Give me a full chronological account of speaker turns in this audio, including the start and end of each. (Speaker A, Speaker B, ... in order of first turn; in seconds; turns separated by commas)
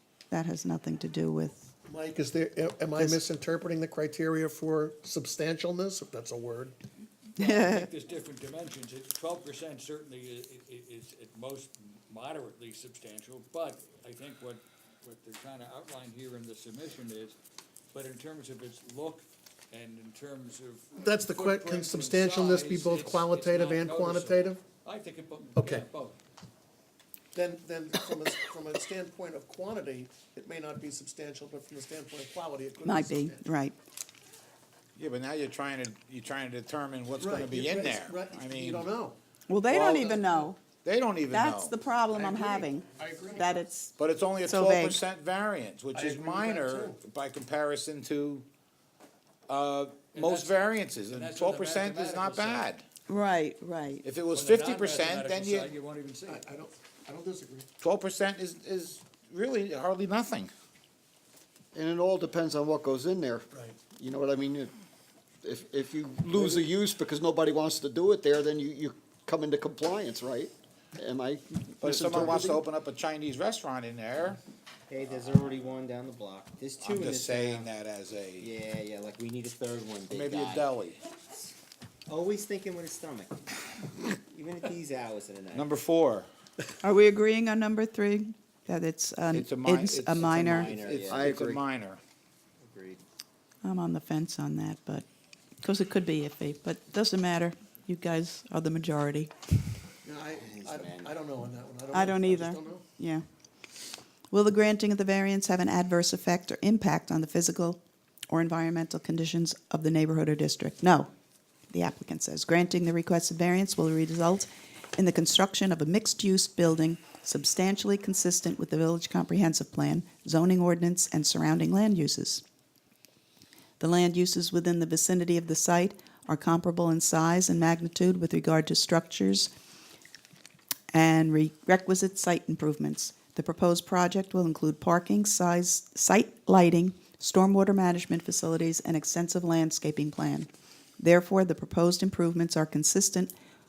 Speaker A: 0.3-1.6, Speaker B: 1.9-6.8, Speaker A: 7.4-7.9, Speaker C: 7.4-17.4, Speaker C: 17.9-26.2, Speaker B: 21.0-24.6, Speaker B: 25.5-25.9, Speaker B: 27.3-33.4, Speaker A: 32.8-33.8, Speaker D: 35.0-38.9, Speaker B: 37.1-39.2, Speaker A: 39.5-40.6, Speaker D: 39.7-40.2, Speaker D: 40.8-41.7, Speaker A: 41.3-45.0, Speaker B: 42.1-43.5, Speaker D: 44.0-48.5, Speaker B: 45.9-47.0, Speaker D: 49.5-52.8, Speaker C: 50.1-52.7, Speaker A: 53.1-54.0, Speaker D: 54.0-55.7, Speaker C: 54.3-56.5, Speaker B: 56.2-57.7, Speaker D: 57.8-60.5, Speaker E: 61.7-64.7, Speaker B: 63.5-63.8, Speaker E: 65.4-72.6, Speaker D: 71.8-74.4, Speaker F: 74.9-77.7, Speaker D: 76.8-78.5, Speaker F: 78.4-80.8, Speaker D: 80.1-81.0, Speaker F: 82.1-83.5, Speaker F: 84.1-85.8, Speaker D: 85.5-86.3, Speaker A: 86.8-90.7, Speaker D: 89.3-92.0, Speaker F: 90.1-91.3, Speaker E: 91.1-91.6, Speaker F: 92.6-93.0, Speaker A: 93.6-95.0, Speaker A: 95.6-99.3, Speaker B: 100.0-102.8, Speaker F: 100.3-101.2, Speaker A: 101.9-103.2, Speaker A: 104.3-111.1, Speaker A: 111.7-122.4, Speaker A: 123.8-129.5, Speaker A: 130.9-143.3